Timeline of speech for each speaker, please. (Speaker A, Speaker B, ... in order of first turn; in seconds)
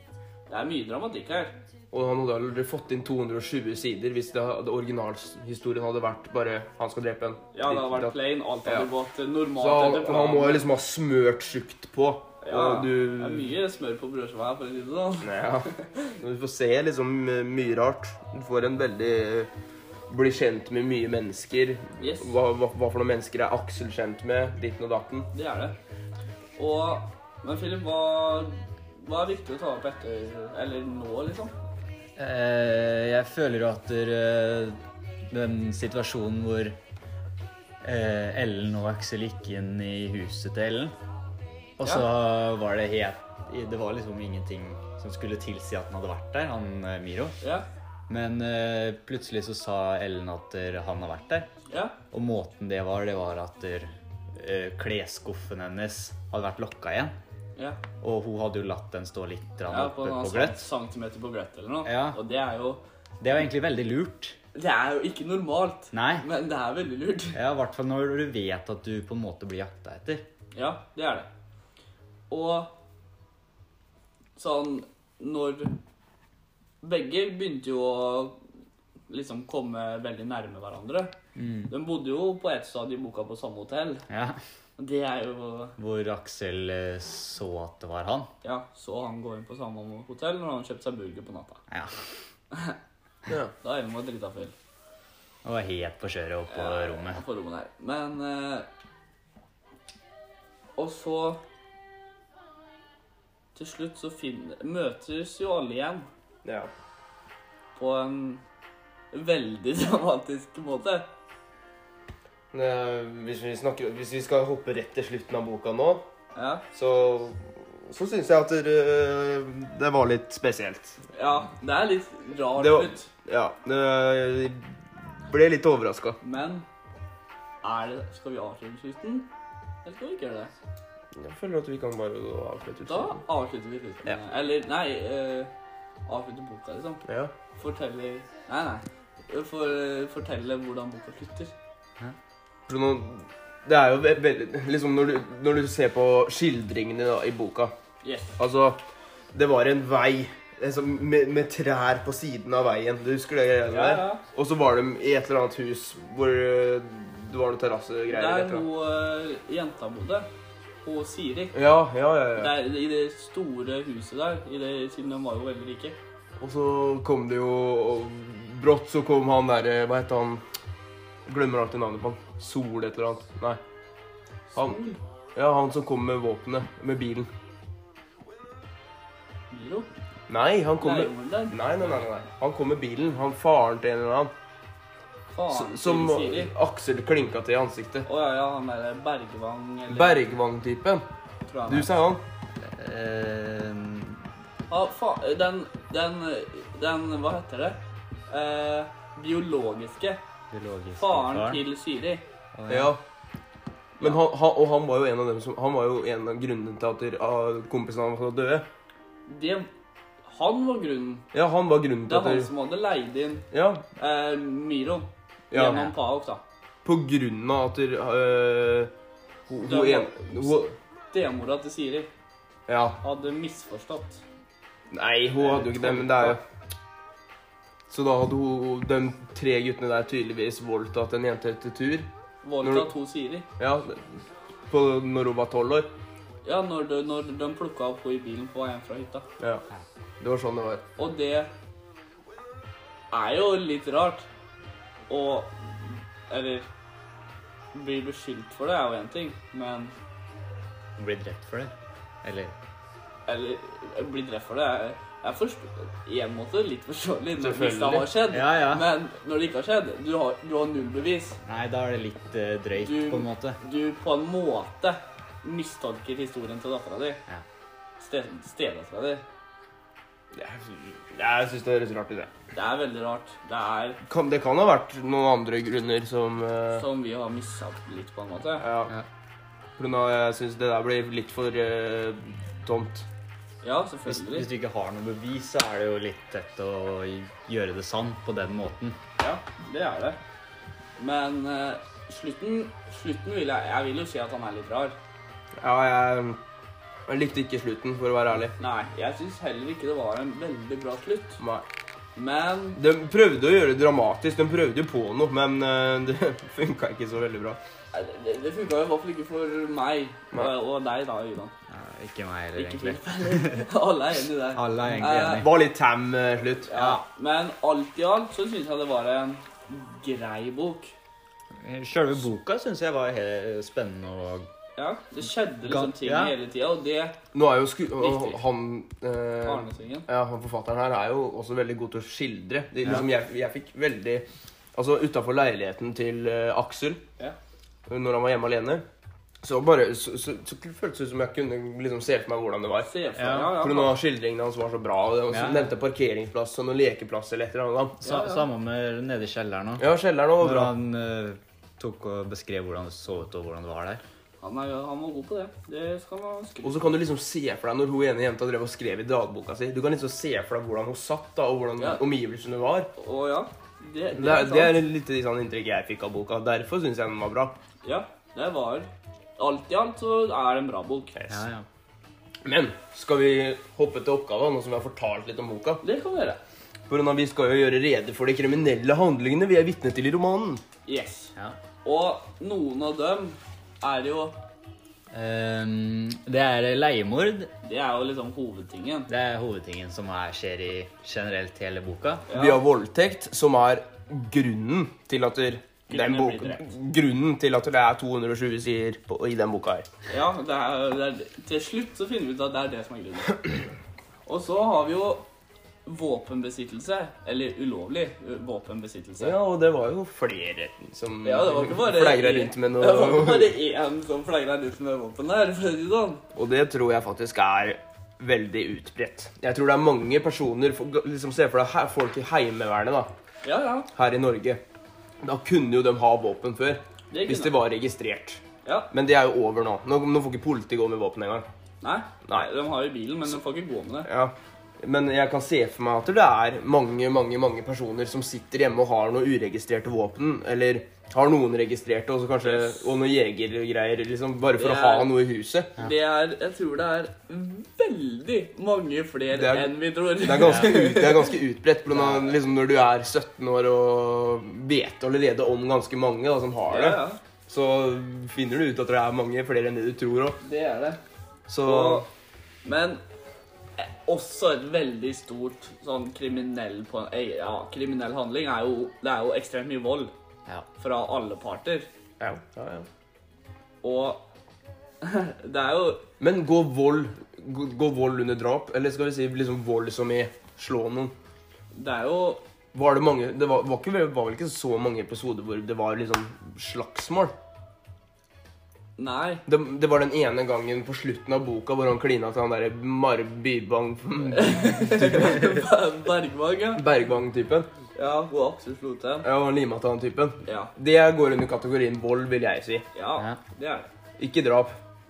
Speaker A: 0.5-1.6, 7.5-10.7, 12.4-16.1, 22.0-22.3, 25.3-25.7, 26.6-31.5, 47.4-47.6, 51.7-52.0, 57.5-57.8, 59.7-62.8, 64.5-67.4, 70.5-71.3, 72.3-72.7, 74.3-75.8, 76.8-78.4, 79.1-81.1, 81.7-84.1, 84.8-85.8, 88.4-91.6, 92.5-92.8, 93.6-94.5, 96.5-98.7, 100.8-101.4, 103.5-106.1, 107.8-108.4, 109.1-111.1, 116.3-116.6, 121.1-123.1, 126.2-126.7, 127.6-129.3, 129.8-130.5, 132.8-135.5, 136.1-137.0, 137.6-141.5, 148.0-148.4, 153.7-154.2, 158.1-160.3, 160.8-161.6, 162.3-166.0, 174.5-175.0, 179.5-179.9, 180.8-182.0, 185.3-186.5, 188.1-190.2, 191.5-191.9, 194.7-197.8, 198.3-200.2, 200.9-202.2, 209.3-209.7, 210.2-211.3, 212.1-216.4, 219.6-222.1, 223.0-224.2, 225.4-226.4, 232.4-233.5, 236.4-239.2, 241.0-241.5, 243.1-244.2, 245.1-246.7, 247.7-249.9, 253.3-261.4, 262.8-267.2, 268.0-269.2, 272.5-274.0, 276.7-278.6, 283.6-284.5, 289.2-290.2, 291.0-294.9, 298.6-301.4, 302.1-302.8, 307.9-311.5, 312.5-315.5, 316.7-320.9, 324.8-327.2, 328.0-328.4, 329.4-330.1, 342.8-343.9, 348.0-348.4, 354.4-356.9, 361.8-362.0, 363.0-364.8, 367.8-371.3, 375.8-376.4, 380.9-384.4, 387.6-389.1, 392.3-392.6, 395.9-396.7, 400.1-403.4, 404.2-405.2, 405.9-409.4, 411.2-416.2, 423.4-423.9, 427.1-427.5, 428.6-428.9, 431.8-434.1, 442.4-442.9, 444.6-445.1, 445.8-451.3, 456.7-457.2, 460.4-461.0, 461.6-462.1, 462.6-463.0, 463.8-470.1, 470.8-471.9, 473.8-474.2, 475.0-476.1, 481.7-482.4, 489.0-489.4, 494.3-496.8, 497.9-499.3, 500.4-500.7, 502.9-503.9
Speaker B: 1.9-8.1, 9.6-13.5, 15.2-19.5, 20.1-25.3, 106.4-106.7, 112.5-116.0, 116.7-121.0, 122.6-124.7, 125.2-126.2, 131.2-133.2, 137.1-137.3, 142.7-147.7, 148.4-148.8, 149.3-158.7, 161.5-162.6, 166.4-170.4, 171.3-173.6, 175.3-177.3, 180.3-184.3, 185.5-188.1, 189.9-191.0, 191.7-192.2, 202.7-203.0, 204.0-208.7, 211.3-212.5, 213.5-213.8, 215.5-215.9, 216.8-218.9, 219.5-220.7, 222.7-223.0, 224.9-226.4, 227.9-232.1, 232.6-232.9, 233.6-234.0, 234.7-235.9, 240.2-240.8, 257.4-258.1, 270.3-272.3, 274.1-276.8, 278.6-278.9, 279.8-283.0, 295.6-296.4, 297.1-298.5, 301.4-301.6, 302.8-307.6, 315.2-316.7, 327.3-337.0, 337.9-338.8, 339.4-348.0, 349.8-350.7, 356.6-362.9, 364.1-367.6, 372.4-375.8, 376.9-380.6, 392.3-399.9, 409.2-413.5, 416.3-423.1, 423.9-424.6, 425.2-431.4, 434.1-445.8, 449.3-460.4, 461.5-462.1, 472.2-472.9, 476.2-481.1, 482.7-487.3, 489.5-495.6, 496.8-497.7, 499.2-502.9, 504.2-504.8
Speaker C: 32.1-36.8, 37.8-40.9, 41.8-47.4, 48.1-51.5, 52.1-57.1, 58.0-60.7, 61.8-62.2, 63.2-64.4, 65.9-66.2, 67.3-70.2, 81.3-81.7, 84.1-84.4, 85.8-88.3, 95.4-97.2, 192.6-194.2, 200.5-201.6, 202.5-202.9, 251.0-252.5, 258.3-258.9, 261.4-263.6, 284.1-289.0, 311.7-313.7, 314.5-315.5, 316.7-317.0, 321.6-324.5, 325.6-326.3, 343.2-343.5, 345.3-345.7, 348.0-349.9, 350.4-354.0, 371.3-371.6, 385.1-387.5, 389.1-392.3